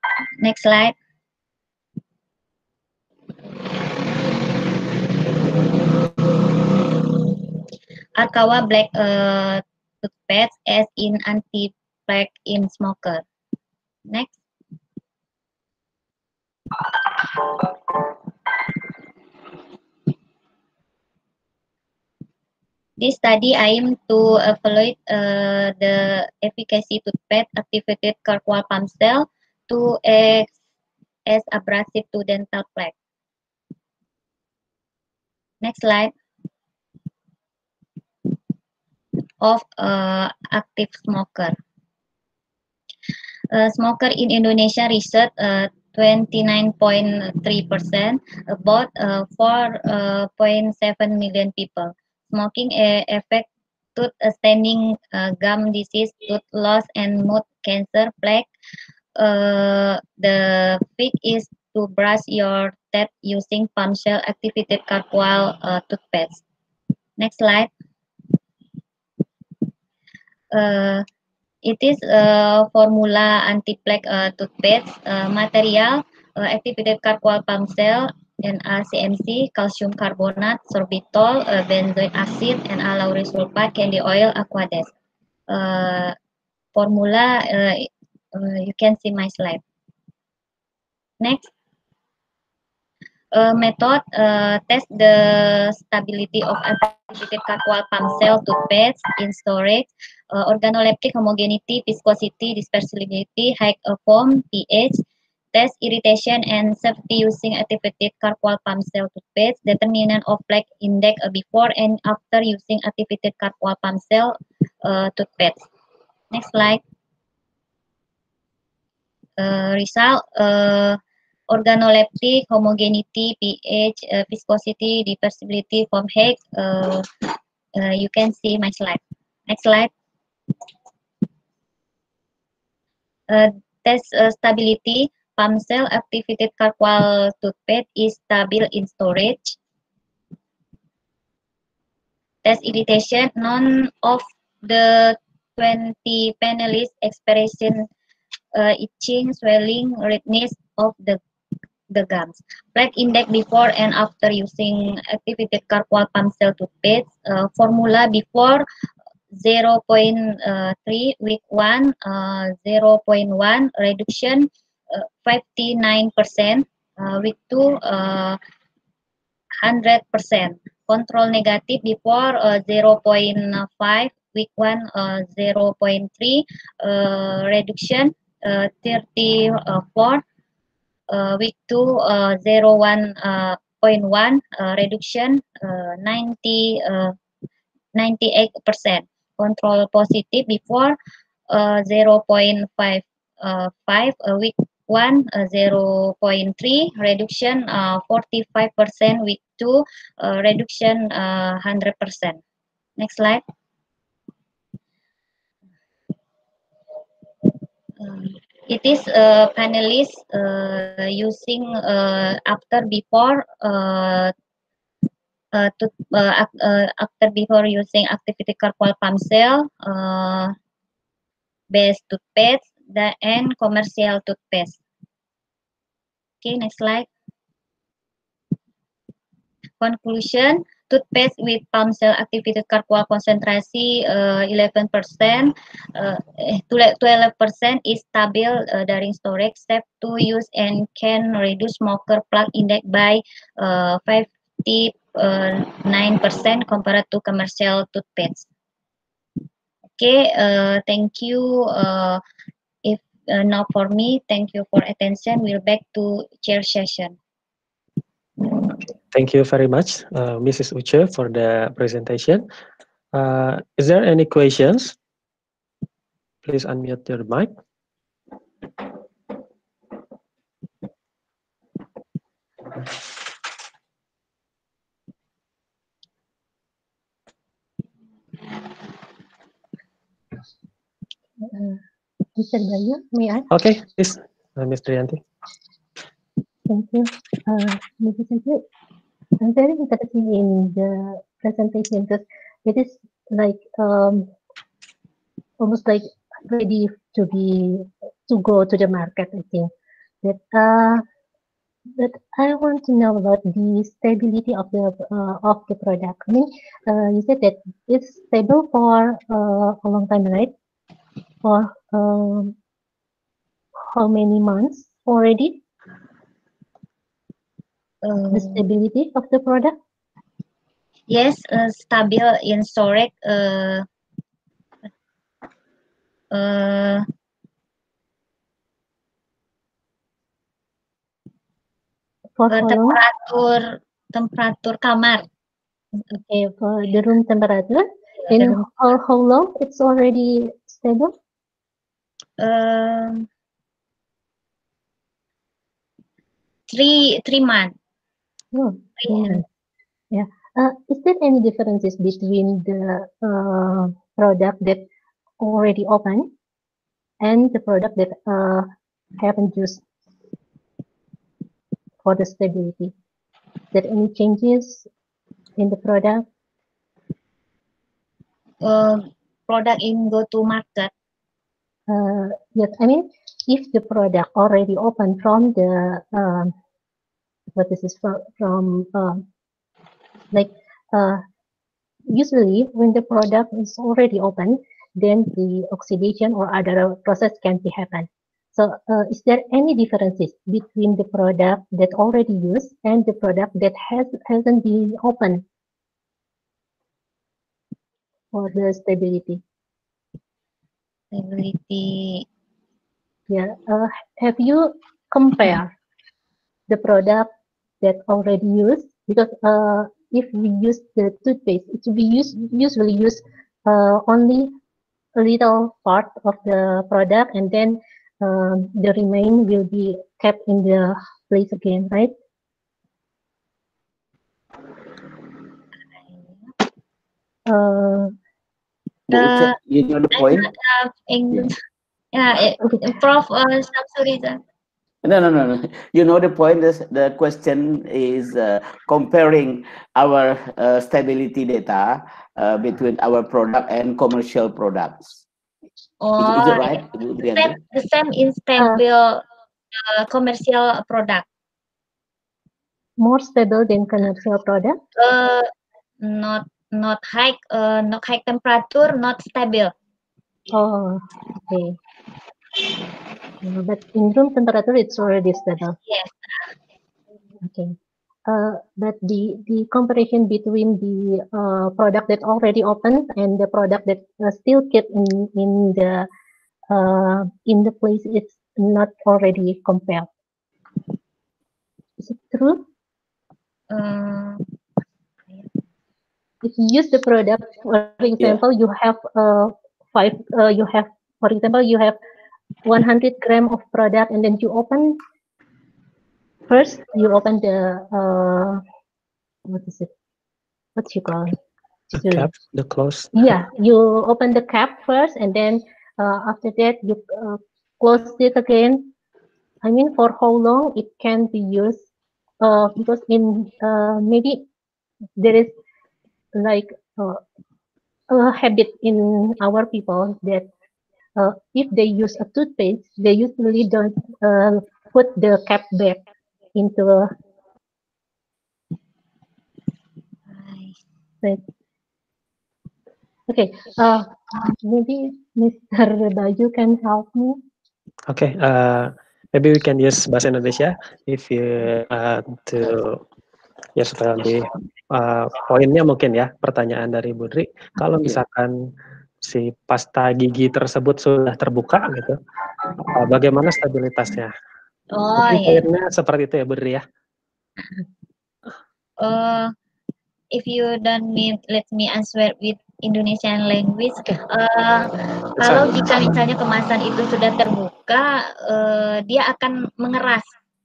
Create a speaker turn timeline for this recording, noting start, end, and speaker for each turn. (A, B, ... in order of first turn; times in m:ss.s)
0:00.4-0:01.0 A
0:06.9-0:07.4 A
0:08.2-0:13.2 A
0:14.1-0:14.4 A
0:23.0-0:30.5 A
0:31.2-0:32.9 A
0:35.6-0:36.1 A
0:39.4-0:41.6 A
0:43.5-0:58.5 A
0:59.2-1:06.4 A
1:07.2-1:07.7 A
1:10.5-1:11.0 A
1:11.6-1:24.9 A
1:25.5-1:26.2 A
1:26.7-1:29.6 A
1:31.2-1:31.5 A
1:33.3-1:55.7 A
1:56.3-1:56.8 A
1:59.4-2:07.1 A
2:07.7-2:09.9 A
2:13.3-2:19.6 A
2:22.4-2:27.9 A
2:28.5-2:31.2 A
2:31.9-2:38.6 A
2:39.3-2:48.4 A
2:49.6-3:00.2 A
3:01.1-3:07.2 A
3:07.9-3:11.0 A
3:11.5-3:22.4 A
3:23.0-3:23.4 A
3:28.0-3:34.3 A
3:35.5-3:40.5 A
3:41.7-3:44.8 A
3:46.4-3:47.1 A
3:49.8-4:08.5 A
4:10.0-4:12.2 A
4:12.8-4:17.2 A
4:18.7-4:22.4 B
4:23.1-4:25.0 B
4:26.4-4:27.5 B
4:41.4-4:41.8 C
4:42.4-4:43.5 C
4:43.5-4:45.2 B
4:46.7-4:48.6 C
4:49.4-4:54.3 C
4:55.6-4:59.7 C
5:00.2-5:01.0 C
5:02.0-5:10.5 C
5:11.4-5:12.5 C
5:13.8-5:15.6 C
5:18.0-5:18.6 A
5:18.3-5:19.7 C
5:21.1-5:23.8 A
5:26.3-5:27.0 A
5:32.4-5:33.0 C
5:32.5-5:35.3 A
5:36.1-5:41.1 C
5:38.3-5:38.6 A
5:42.4-5:43.3 A
5:46.7-5:47.7 A
5:48.5-5:49.4 C
5:49.0-5:49.4 A
5:50.1-5:54.9 C
5:55.4-5:56.3 C
5:57.2-5:58.7 C
5:59.2-5:59.8 C
6:02.0-6:02.9 C
6:03.7-6:04.9 C
6:05.6-6:06.2 C
6:08.6-6:10.9 A
6:11.9-6:16.5 C
6:17.5-6:19.2 C
6:20.3-6:21.2 C
6:22.1-6:35.4 C
6:38.3-6:39.4 C
6:41.1-6:42.2 A
6:43.3-6:45.7 C
6:46.7-6:47.3 C
6:47.8-6:54.5 C
6:55.2-7:02.1 C
7:07.4-7:08.1 C
7:09.1-7:10.5 D
7:09.1-7:09.6 A
7:10.1-7:11.6 A
7:12.1-7:14.4 A
7:12.6-7:12.9 C
7:15.0-7:25.2 D
7:26.0-7:31.2 A
7:26.2-7:27.6 D
7:28.6-7:28.8 C
7:33.0-7:34.8 C
7:35.0-7:35.5 A
7:36.0-7:39.7 A
7:40.5-7:41.8 C
7:43.4-7:45.8 C
7:45.9-7:46.5 A
7:47.4-7:56.1 C
7:56.7-8:00.1 C
8:02.0-8:02.6 C
8:03.7-8:04.4 A
8:06.4-8:12.0 C
8:12.6-8:15.0 C
8:16.5-8:18.6 C
8:19.5-8:19.9 C
8:20.8-8:21.4 C
8:21.9-8:22.3 C
8:21.9-8:23.3 B
8:23.1-8:28.9 C
8:29.6-8:31.8 C
8:32.4-8:34.4 C
8:35.2-8:35.5 C
8:36.3-8:37.2 C
8:38.1-8:40.5 C
8:41.2-8:46.0 C
8:46.5-8:47.1 C
8:50.3-8:50.8 A
8:53.3-8:57.4 C
8:58.1-9:03.0 B
9:03.8-9:08.7 B
9:09.2-9:12.2 B
9:12.9-9:14.3 B
9:14.9-9:15.6 A
9:15.3-9:16.8 B
9:19.0-9:19.5 A
9:20.3-9:30.4 A
9:25.4-9:26.1 B